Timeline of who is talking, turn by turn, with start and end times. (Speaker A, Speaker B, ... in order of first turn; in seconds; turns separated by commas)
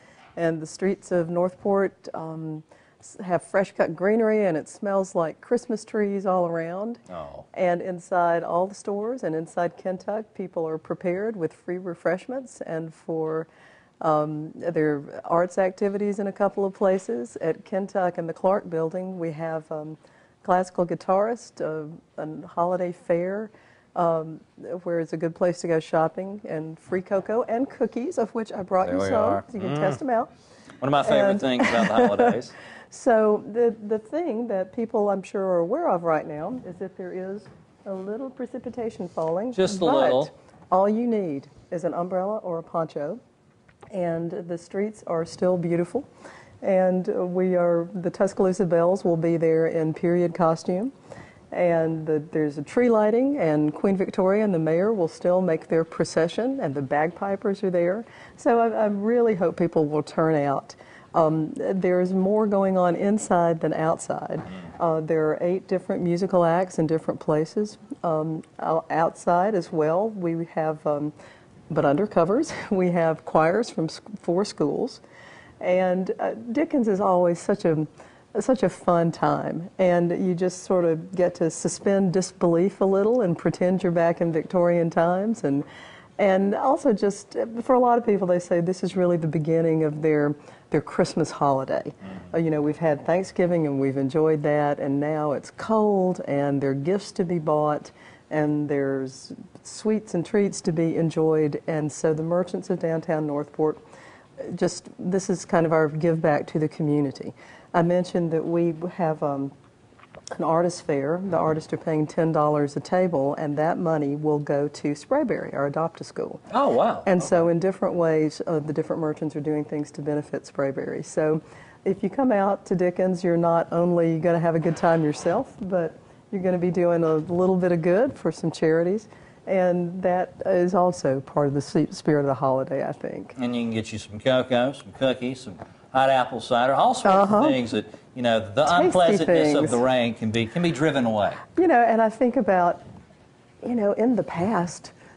Speaker A: 0.4-7.0, Speaker B: 7.1-7.5, Speaker A: 7.5-13.5, Speaker A: 14.0-30.3, Speaker B: 28.8-30.0, Speaker B: 30.8-32.5, Speaker A: 31.0-32.4, Speaker A: 32.9-43.2, Speaker B: 39.5-40.3, Speaker A: 43.9-46.1, Speaker A: 46.6-50.9, Speaker A: 51.5-71.1, Speaker A: 71.7-75.0, Speaker A: 75.6-85.7, Speaker A: 86.2-103.8, Speaker A: 104.4-109.5, Speaker A: 110.3-116.4, Speaker B: 116.5-117.3, Speaker A: 117.0-133.3, Speaker B: 133.4-141.4, Speaker A: 137.0-137.6, Speaker A: 138.7-139.8, Speaker A: 141.6-142.8, Speaker A: 143.6-144.9